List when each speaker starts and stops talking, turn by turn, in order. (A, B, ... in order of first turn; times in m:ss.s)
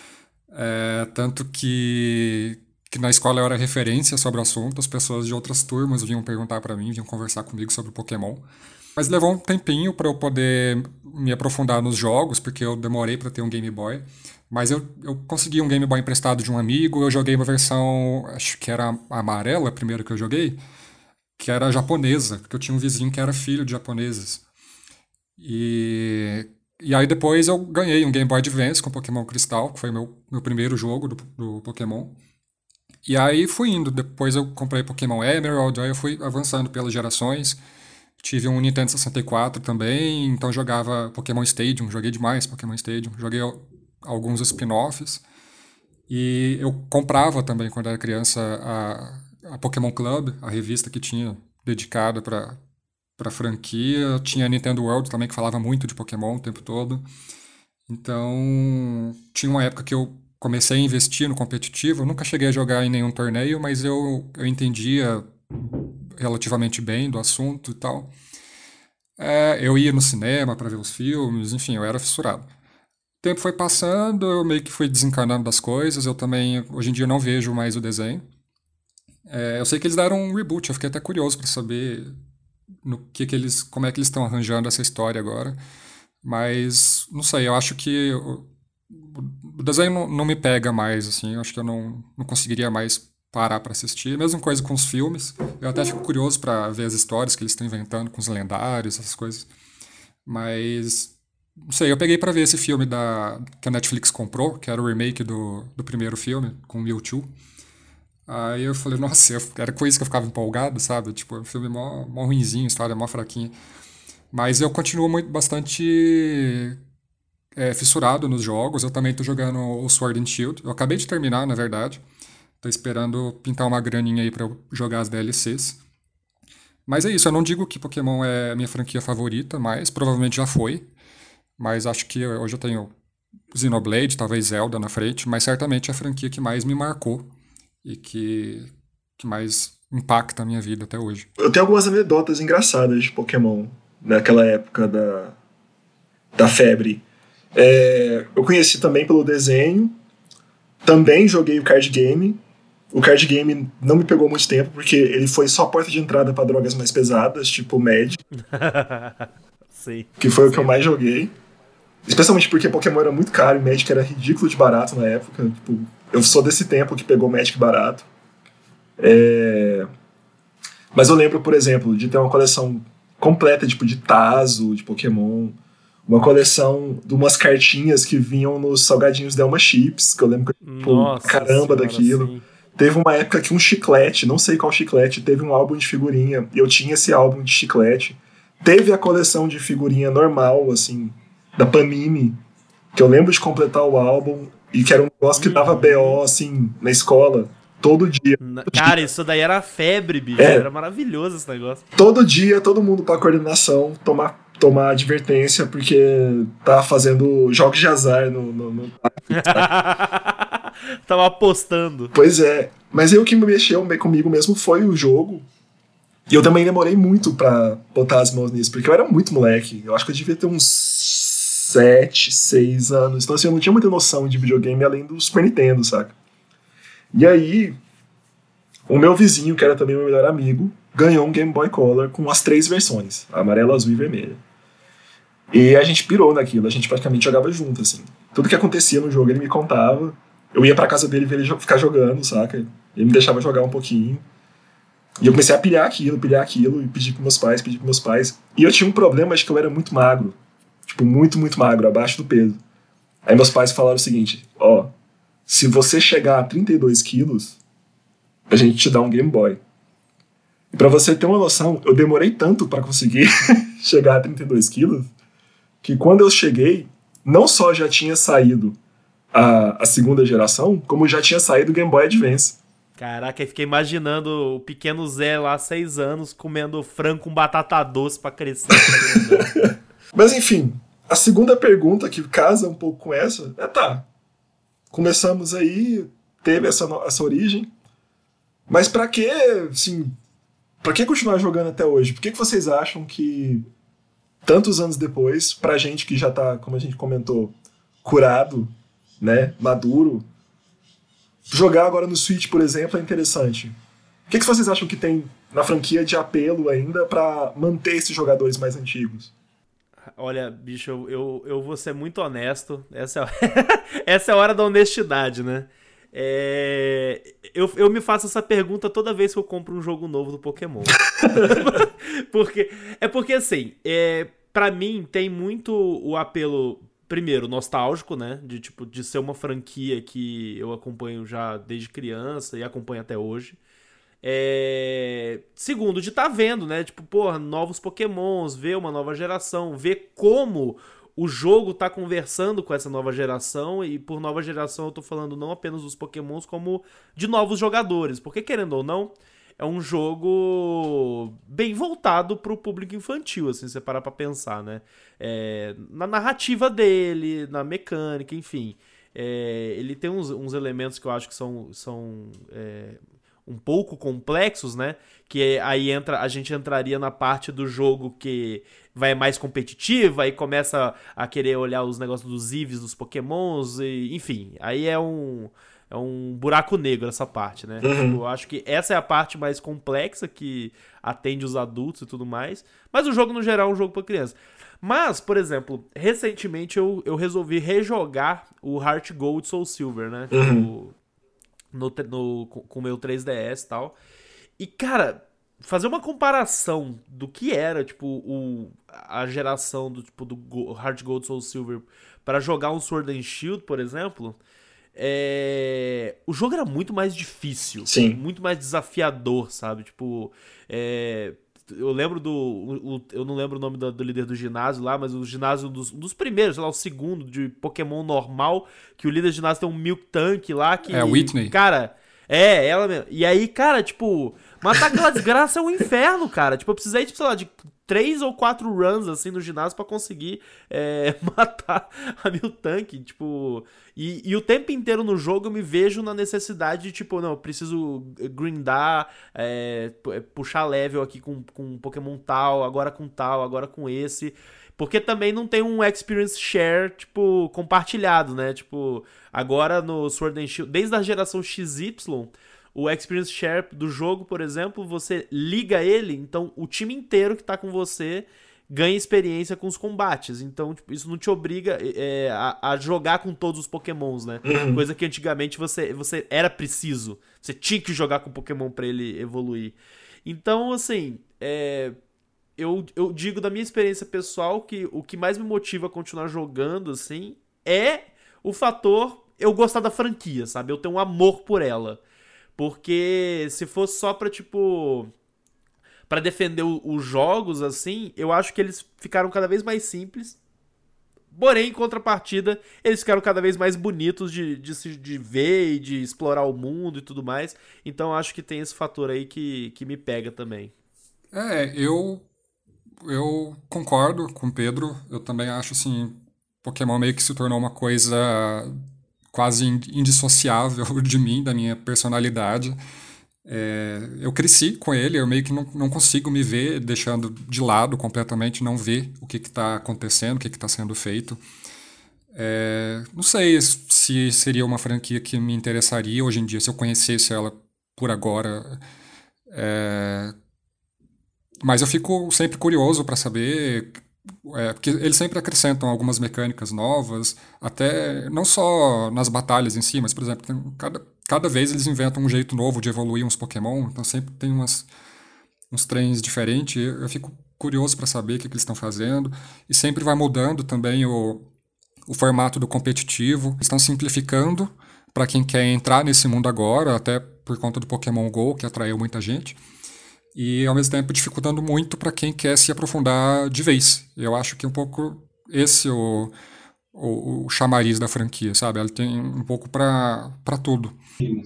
0:00.5-0:08.4 A
0:09.0-0:20.6 A
0:21.4-0:24.4 A
0:25.4-0:32.2 A
0:33.0-0:37.6 A
0:38.2-0:45.2 A
0:46.1-0:52.6 A
0:53.2-0:57.0 A
0:57.9-1:08.1 A
1:09.2-1:12.5 A
1:13.2-1:18.2 A
1:19.3-1:22.1 A
1:22.8-1:25.6 A
1:26.2-1:39.5 A
1:40.2-1:41.2 A
1:41.7-1:47.3 A
1:48.3-1:53.5 A
1:54.3-1:56.8 A
1:57.6-2:02.0 A
2:02.6-2:05.8 A
2:06.9-2:10.9 A
2:11.6-2:12.9 A
2:13.5-2:17.3 A
2:17.8-2:21.3 A
2:21.4-2:25.3 B
2:26.4-2:27.0 B
2:27.5-2:29.9 B
2:30.8-2:32.4 B
2:32.9-2:38.2 B
2:38.4-2:40.8 C
2:40.2-2:41.3 B
2:42.0-2:48.1 B
2:49.0-2:49.9 B
2:50.9-2:55.6 B
2:56.1-3:12.4 B
3:00.6-3:02.4 C
3:12.9-3:19.0 B
3:15.4-3:16.2 C
3:18.4-3:21.8 C
3:20.4-3:20.7 B
3:21.9-3:29.7 B
3:29.3-3:32.1 C
3:32.1-3:35.4 B
3:36.3-3:46.1 B
3:47.1-3:47.8 B
3:48.9-3:54.4 B
3:55.5-4:04.2 B
4:05.2-4:10.4 B
4:10.9-4:12.6 B
4:13.2-4:14.9 B
4:15.5-4:17.6 B
4:18.5-4:19.6 B
4:20.7-4:25.1 B
4:25.8-4:28.8 B
4:29.3-4:32.6 B
4:33.0-4:39.6 C
4:39.0-4:44.0 B
4:44.9-4:47.7 B
4:48.7-4:50.1 B
4:50.8-4:53.6 B
4:54.4-5:00.2 B
5:01.5-5:03.7 B
5:04.3-5:09.3 B
5:10.2-5:33.6 C
5:21.2-5:21.6 B
5:34.2-6:30.9 C
6:17.8-6:18.2 B
6:30.3-6:30.7 B
6:31.7-6:34.0 C
6:34.6-6:44.4 C
6:45.0-7:52.0 C
6:47.8-6:48.2 B
7:00.9-7:01.6 A
7:44.4-7:44.8 B
7:52.6-8:02.0 C
8:02.6-8:05.1 C
8:06.1-8:10.4 C
8:11.3-8:20.7 C
8:21.3-8:22.2 A
8:23.0-8:28.7 A
8:29.3-8:32.8 A
8:33.4-8:41.4 A
8:42.3-8:48.8 A
8:49.5-8:50.3 A
8:51.6-9:04.9 A
9:05.7-9:11.4 A
9:12.0-9:19.6 A
9:20.3-9:26.3 A
9:26.9-9:31.0 A